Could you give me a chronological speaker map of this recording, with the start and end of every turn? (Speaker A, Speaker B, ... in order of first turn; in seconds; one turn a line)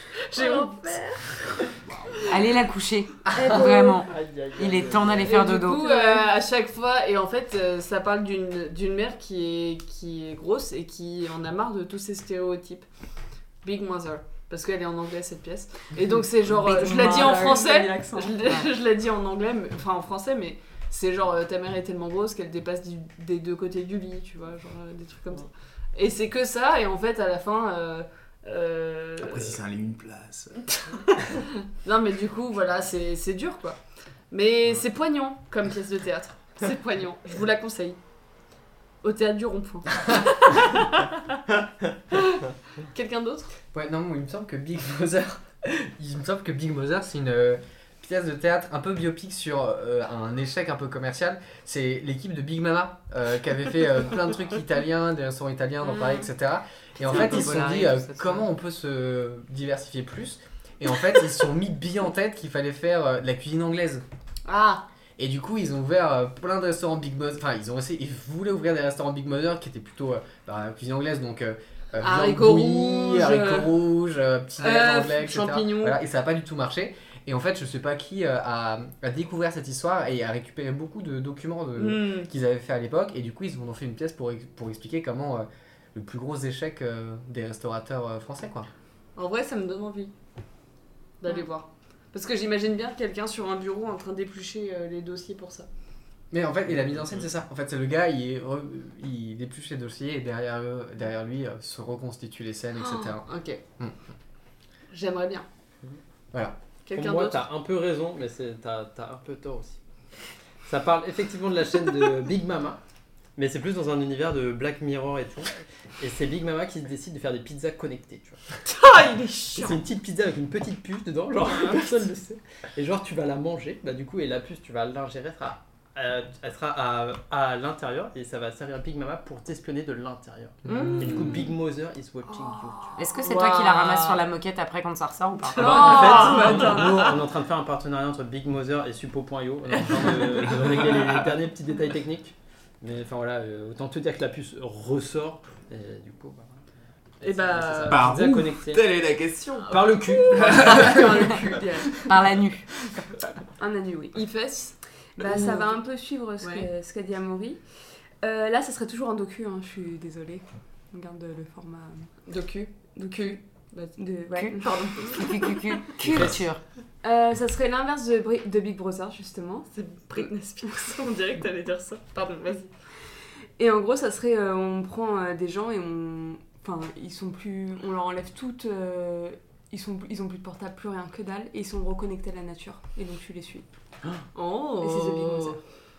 Speaker A: 0.3-1.7
Speaker B: 0.3-1.2
Speaker C: 1.8-2.4
Speaker D: 2.3-6.2
Speaker E: 3.3-3.6
Speaker B: 3.4-4.0
Speaker F: 4.0-5.3
Speaker A: 5.2-12.8
Speaker B: 5.4-6.2
Speaker A: 13.6-29.6
Speaker B: 16.5-18.6
Speaker D: 16.6-17.6
Speaker C: 29.2-31.0
Speaker A: 31.2-33.8
Speaker A: 34.3-38.0
Speaker A: 39.0-41.2
Speaker A: 42.1-43.5
Speaker E: 43.7-64.0
Speaker D: 56.0-56.2
Speaker D: 57.0-58.5
Speaker A: 64.4-64.8
Speaker E: 65.2-88.7
Speaker A: 72.0-73.8
Speaker A: 74.6-76.0
Speaker A: 81.8-82.3
Speaker A: 89.2-90.1
Speaker A: 91.2-95.7
Speaker E: 96.3-103.2
Speaker A: 102.8-103.6
Speaker A: 104.9-105.4
Speaker A: 106.8-107.4
Speaker F: 106.9-109.8
Speaker F: 110.6-112.8
Speaker F: 113.3-118.4
Speaker A: 118.7-119.8
Speaker F: 119.5-133.0
Speaker E: 130.7-131.0
Speaker A: 130.7-131.4
Speaker D: 133.0-136.4
Speaker A: 133.2-134.2
Speaker A: 135.6-137.2
Speaker F: 135.6-146.6
Speaker B: 136.4-136.7
Speaker A: 139.9-140.5
Speaker A: 147.2-148.0
Speaker F: 147.2-148.8
Speaker C: 147.9-151.3
Speaker F: 149.7-150.9
Speaker A: 149.7-151.9
Speaker B: 150.4-152.0
Speaker D: 152.1-152.7
Speaker B: 153.6-154.3
Speaker A: 154.1-155.8
Speaker B: 155.2-157.6
Speaker A: 156.4-156.7
Speaker B: 158.2-162.2
Speaker A: 162.3-164.0
Speaker B: 162.8-163.4
Speaker B: 163.9-165.5
Speaker D: 164.3-166.6
Speaker A: 164.6-165.3
Speaker F: 166.0-166.5
Speaker B: 167.0-170.7
Speaker A: 169.9-172.7
Speaker B: 173.6-183.7
Speaker A: 184.3-185.6
Speaker B: 184.8-185.6